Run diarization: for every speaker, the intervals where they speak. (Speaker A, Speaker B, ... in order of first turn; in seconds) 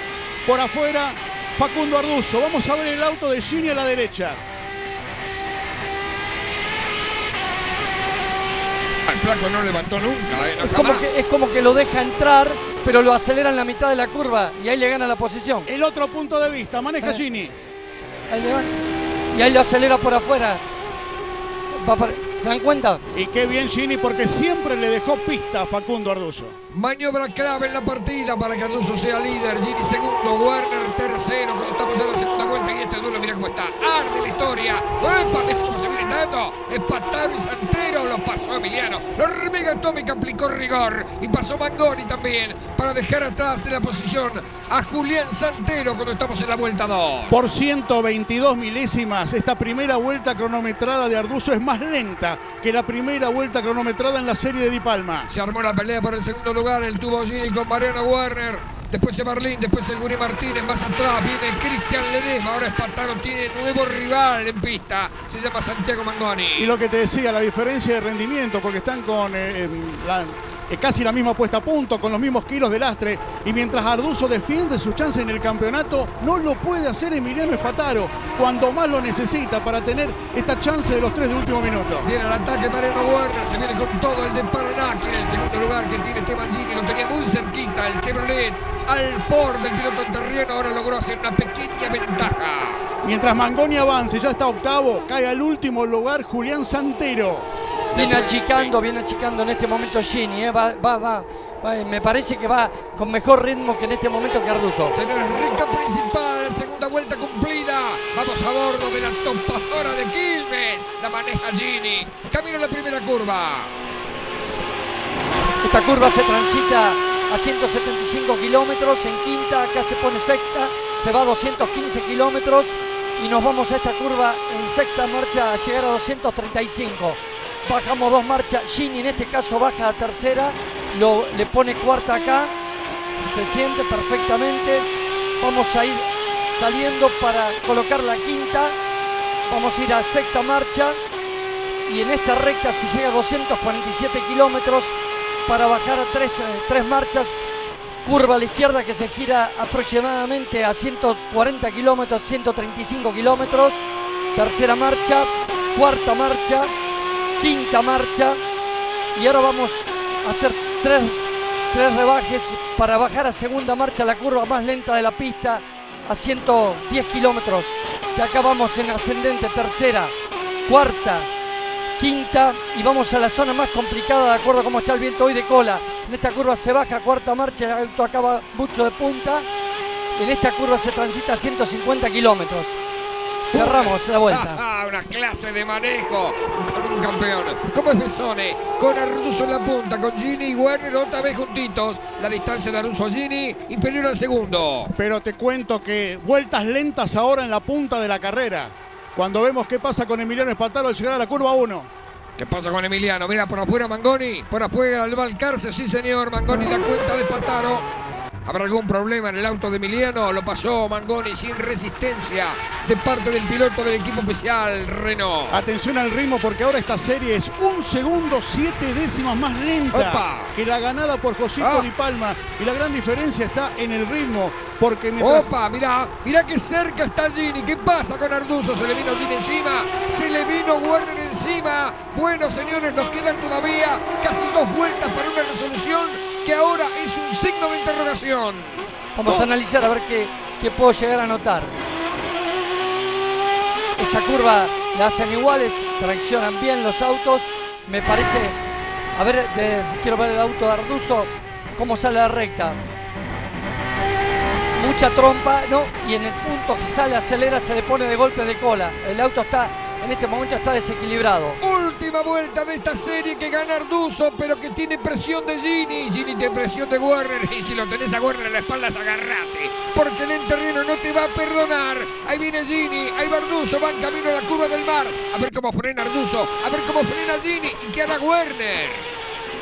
Speaker A: 0.5-4.4, 15.7-17.6, 23.1-26.5, 47.3-55.3, 66.6-82.1, 93.0-97.5, 195.0-201.9, 215.5-225.5
Speaker B: 9.1-11.1, 26.7-47.4, 55.3-66.7, 82.0-92.8, 97.9-98.7, 104.9-113.8, 183.5-194.9, 202.4-207.9, 208.5-215.6, 219.9-220.5, 221.6-221.9, 225.2-239.4, 261.6-279.1
Speaker C: 10.6-15.7, 18.3-18.8, 19.3-20.6, 21.7-23.0, 97.9-105.0, 115.6-132.5, 133.2-134.9, 135.4-138.8, 139.5-141.0, 141.9-144.9, 145.5-147.4, 148.1-156.7, 157.4-158.4, 159.2-170.1, 170.7-171.3, 172.0-179.5, 180.2-182.8, 183.5-184.6, 239.2-241.8, 244.0-248.6, 249.2-252.8, 254.8-261.6